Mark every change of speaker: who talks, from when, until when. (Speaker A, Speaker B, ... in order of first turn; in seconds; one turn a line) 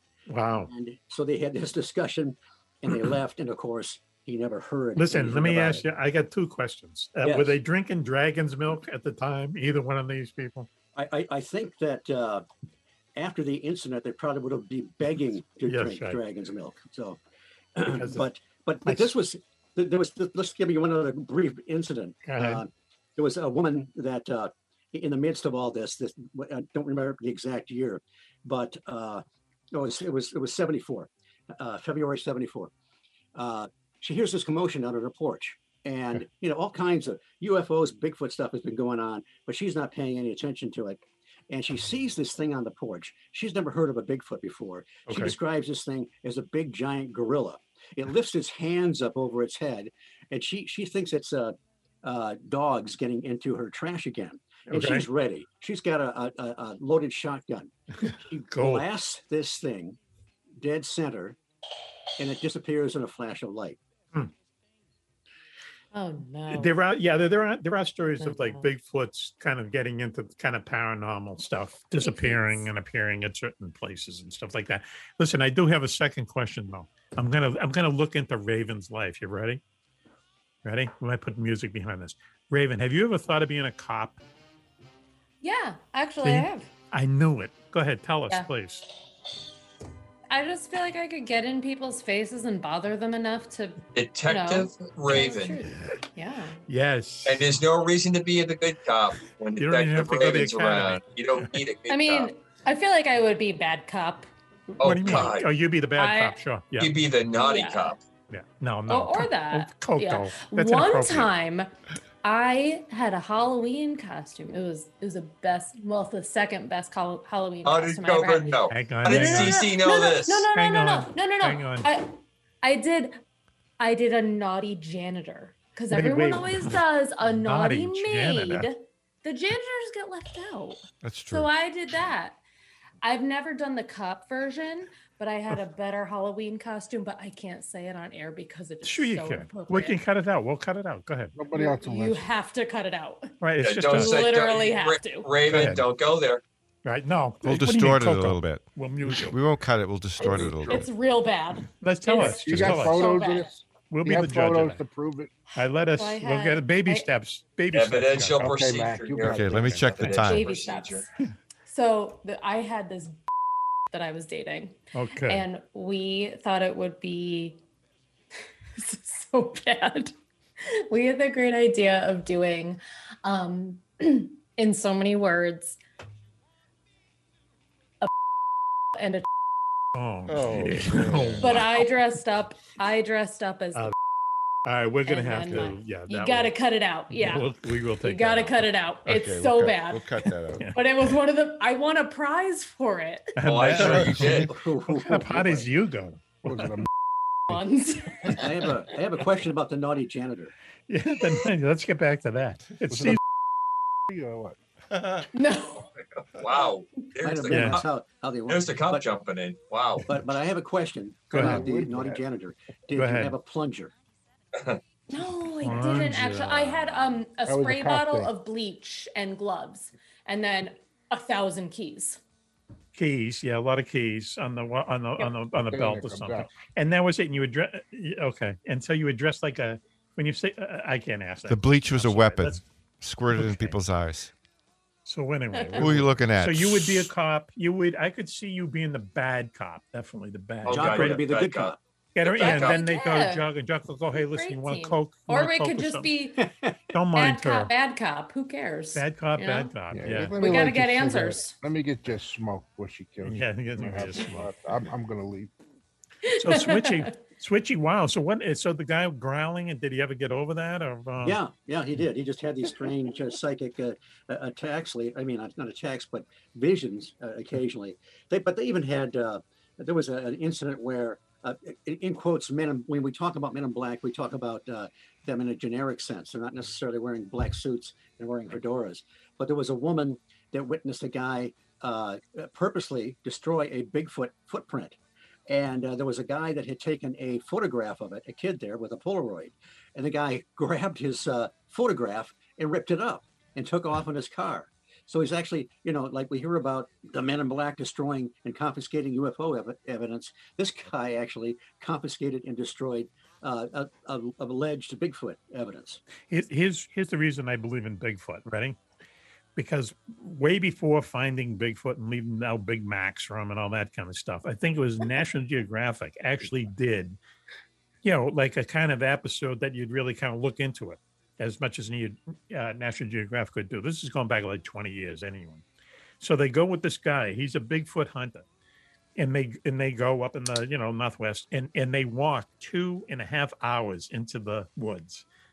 Speaker A: 0.3-0.7
Speaker B: 0.7-5.9
Speaker A: 5.0-10.7
Speaker B: 7.2-7.6
Speaker B: 10.9-12.5
Speaker B: 13.2-17.2
Speaker A: 15.7-16.2
Speaker B: 17.8-32.7
Speaker A: 17.9-18.2
Speaker A: 18.9-19.1
Speaker A: 22.3-22.6
Speaker B: 33.4-60.0
Speaker A: 45.1-45.4
Speaker A: 54.7-55.1
Speaker A: 58.0-58.9
Speaker B: 60.6-61.4
Speaker B: 62.2-63.8
Speaker C: 65.9-66.8
Speaker A: 66.5-79.6
Speaker C: 68.2-68.7
Speaker C: 72.0-72.7
Speaker A: 80.7-84.2
Speaker C: 85.4-86.7
Speaker A: 86.2-88.9
Speaker C: 90.3-96.6
Speaker D: 93.9-95.6
Speaker A: 96.7-97.5
Speaker D: 97.3-102.3
Speaker A: 99.6-101.0
Speaker C: 101.9-104.3
Speaker D: 104.8-105.5
Speaker A: 104.8-106.9
Speaker C: 106.0-106.4
Speaker D: 106.8-108.0
Speaker C: 107.4-108.0
Speaker A: 108.3-111.3
Speaker C: 108.9-111.7
Speaker C: 112.2-123.2
Speaker D: 117.7-120.5
Speaker A: 118.7-119.6
Speaker A: 120.5-121.9
Speaker C: 123.8-132.4
Speaker A: 125.9-128.7
Speaker E: 131.0-131.5
Speaker C: 133.0-140.0
Speaker A: 138.8-141.3
Speaker F: 141.3-142.3
Speaker C: 141.5-143.3
Speaker A: 143.4-144.2
Speaker D: 143.6-146.4
Speaker C: 143.9-145.3
Speaker A: 145.5-145.8
Speaker A: 146.8-149.4
Speaker E: 147.4-150.9
Speaker C: 150.2-153.5
Speaker A: 151.8-153.2
Speaker F: 152.2-155.3
Speaker A: 153.9-154.8
Speaker A: 155.6-158.5
Speaker C: 155.9-157.1
Speaker D: 157.7-161.1
Speaker F: 158.4-160.1
Speaker E: 159.2-160.5
Speaker C: 160.2-161.1
Speaker C: 161.7-163.2
Speaker C: 163.9-167.6
Speaker A: 164.9-165.4
Speaker C: 168.8-175.8
Speaker C: 178.9-179.3
Speaker A: 179.9-181.7
Speaker E: 180.3-181.7
Speaker C: 181.4-183.9
Speaker A: 184.7-186.5
Speaker C: 185.1-187.5
Speaker A: 187.1-188.7
Speaker C: 188.0-193.3
Speaker E: 189.1-190.7
Speaker A: 193.4-196.8
Speaker D: 193.4-194.5
Speaker B: 194.0-195.7
Speaker F: 196.5-196.9
Speaker C: 197.5-198.5
Speaker B: 198.3-200.5
Speaker A: 200.9-203.2
Speaker F: 202.9-203.2
Speaker F: 204.1-204.6
Speaker E: 205.0-205.2
Speaker C: 205.3-205.9
Speaker D: 206.2-207.9
Speaker B: 207.2-209.1
Speaker A: 207.5-207.8
Speaker D: 208.5-210.2
Speaker B: 210.0-213.9
Speaker A: 211.3-211.7
Speaker F: 211.4-212.2
Speaker A: 212.9-213.4
Speaker D: 214.5-214.8
Speaker C: 215.1-222.2
Speaker A: 215.6-217.1
Speaker F: 217.5-218.3
Speaker A: 222.9-232.7
Speaker F: 225.6-226.5
Speaker E: 231.5-234.3
Speaker A: 233.3-233.8
Speaker A: 235.1-241.2
Speaker C: 235.5-235.9
Speaker E: 235.8-237.1
Speaker D: 240.7-242.8
Speaker B: 240.7-241.8
Speaker A: 242.2-246.1
Speaker C: 242.3-243.5
Speaker C: 244.1-246.4
Speaker B: 246.4-246.7
Speaker A: 246.9-247.7
Speaker C: 247.2-249.7
Speaker A: 248.9-250.4
Speaker F: 249.9-255.5
Speaker C: 250.4-251.6
Speaker A: 253.2-254.5
Speaker C: 256.3-257.1
Speaker A: 256.3-261.4
Speaker B: 261.2-285.0
Speaker B: 285.5-306.0
Speaker A: 306.3-308.8
Speaker A: 309.6-317.2
Speaker A: 318.0-325.6
Speaker A: 326.2-328.5
Speaker A: 329.2-335.2